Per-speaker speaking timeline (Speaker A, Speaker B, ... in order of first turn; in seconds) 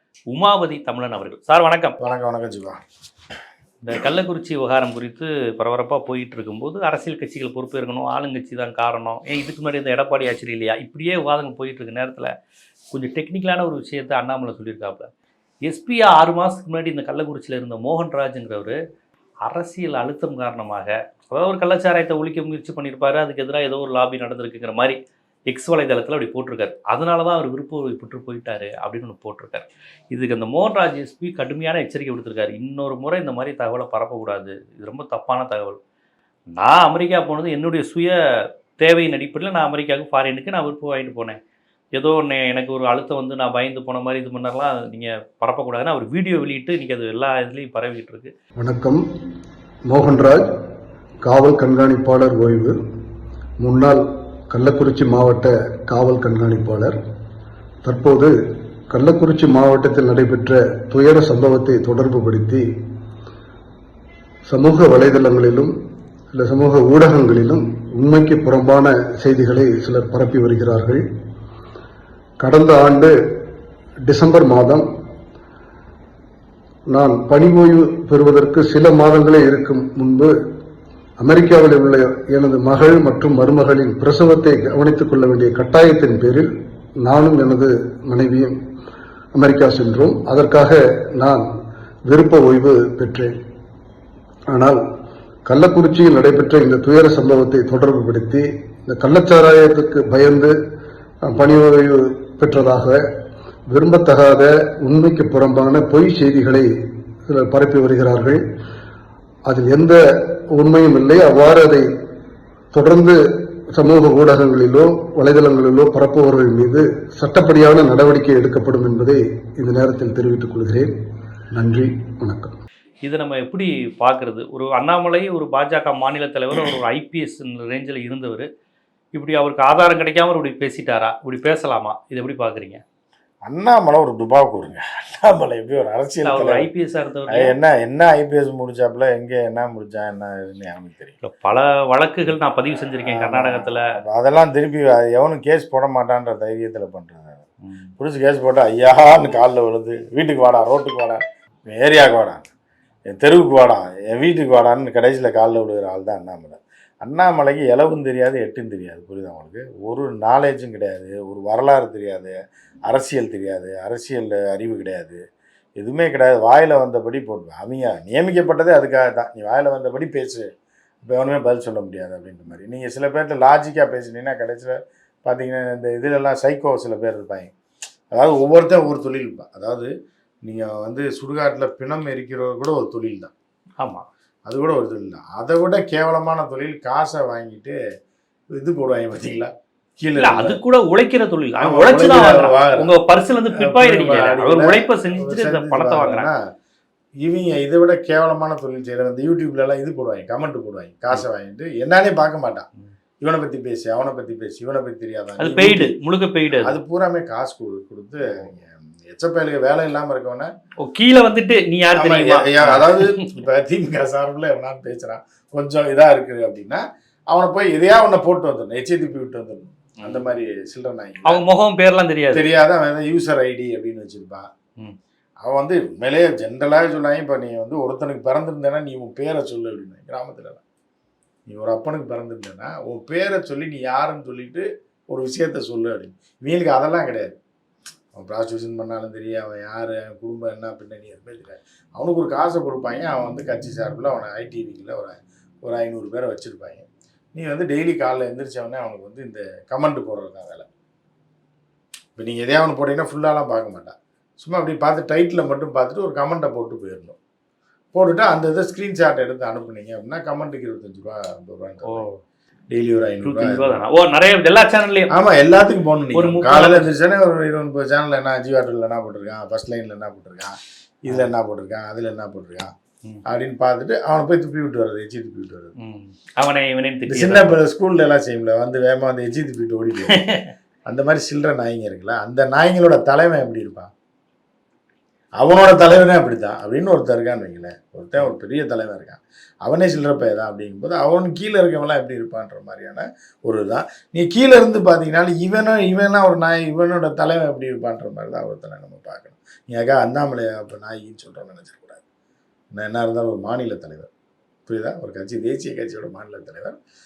Speaker A: 0.3-2.0, 3.8-12.3, 12.9-15.1, 15.6-18.8, 19.4-25.0, 25.5-35.8, 36.6-38.2, 38.8-41.4, 41.9-48.3, 123.0-128.5, 129.1-132.8, 136.2-137.5, 141.2-143.9, 147.6-147.9, 183.8-184.1, 190.2-196.3, 205.4-206.7, 210.8-213.2, 221.2-222.4, 261.8-262.2, 263.2-265.1, 266.1-266.9, 275.8-277.6, 280.1-280.5
Speaker B: 2.0-2.8, 133.4-136.7, 137.3-141.2, 143.0-147.4, 148.0-152.5, 153.1-162.3, 162.9-165.2, 165.8-170.5, 171.0-177.5, 178.1-179.9, 180.4-183.3, 184.5-187.8, 188.5-190.6, 191.6-192.9, 193.5-196.4, 197.2-202.7, 203.2-205.9, 206.5-210.5, 211.9-221.4, 222.3-224.5, 225.4-230.6, 231.5-237.4, 238.1-250.7, 252.2-257.2, 257.9-262.1, 262.7-263.8, 265.1-272.7, 273.2-275.7, 277.1-280.2, 280.9-283.9, 285.4-302.0, 302.7-304.1, 304.7-306.8
Speaker C: 48.6-49.0, 49.9-50.5, 51.2-52.8, 53.6-57.0, 57.8-58.4, 58.9-62.7, 64.5-65.7, 66.3-71.0, 72.4-73.3, 74.0-74.9, 76.9-80.4, 81.2-88.6, 89.3-91.5, 92.0-93.3, 94.5-94.8, 95.5-100.6, 101.2-106.7, 107.3-108.4, 109.5-112.0, 112.7-120.9, 121.5-122.6